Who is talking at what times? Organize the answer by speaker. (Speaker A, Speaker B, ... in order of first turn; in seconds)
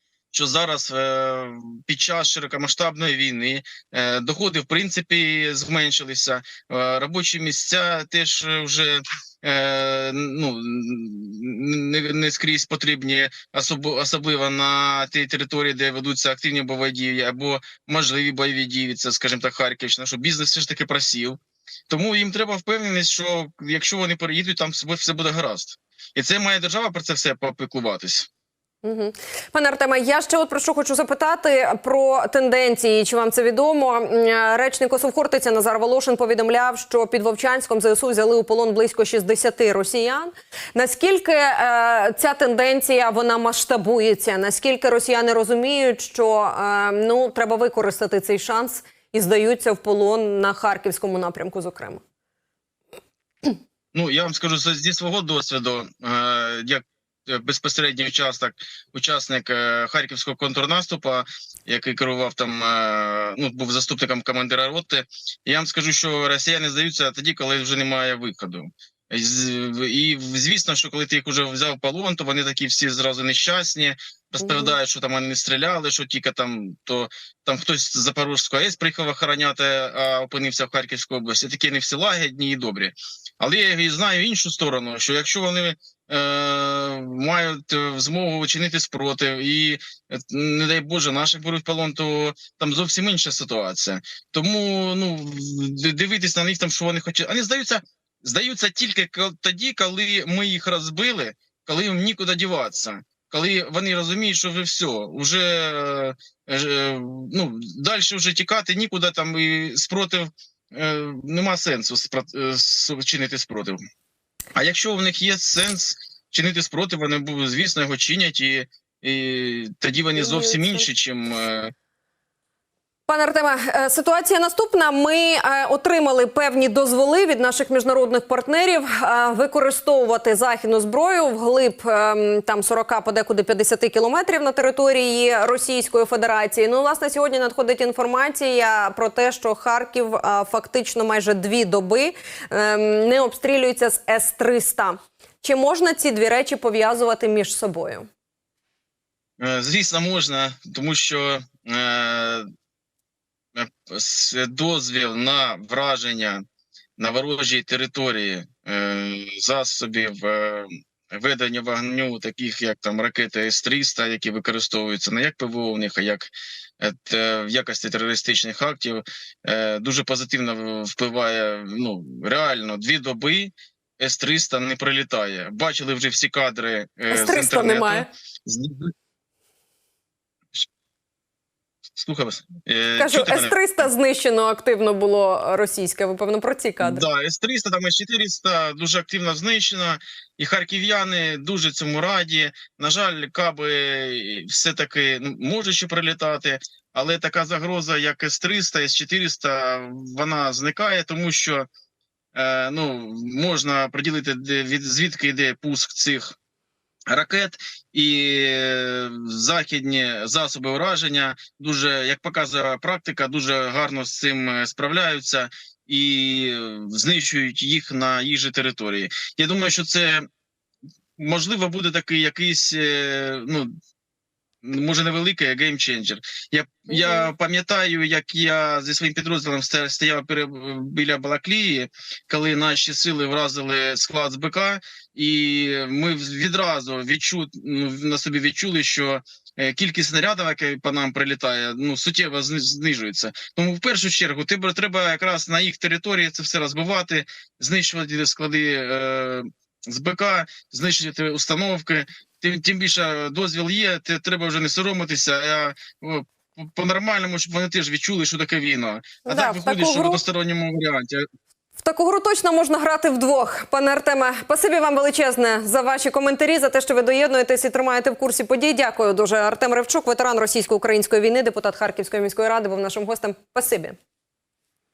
Speaker A: 0.3-28.3, 53.9-113.8, 114.5-121.7, 149.4-152.4, 153.5-156.4, 157.0-178.9, 181.9-183.5, 186.8-201.7, 202.3-206.3, 207.1-220.2, 221.2-223.7, 224.6-261.2
Speaker B: 28.8-52.0, 74.4-74.7, 120.2-120.9, 123.1-148.1, 177.1-178.1, 183.0-187.0, 226.9-227.3, 259.2-260.2, 261.8-274.0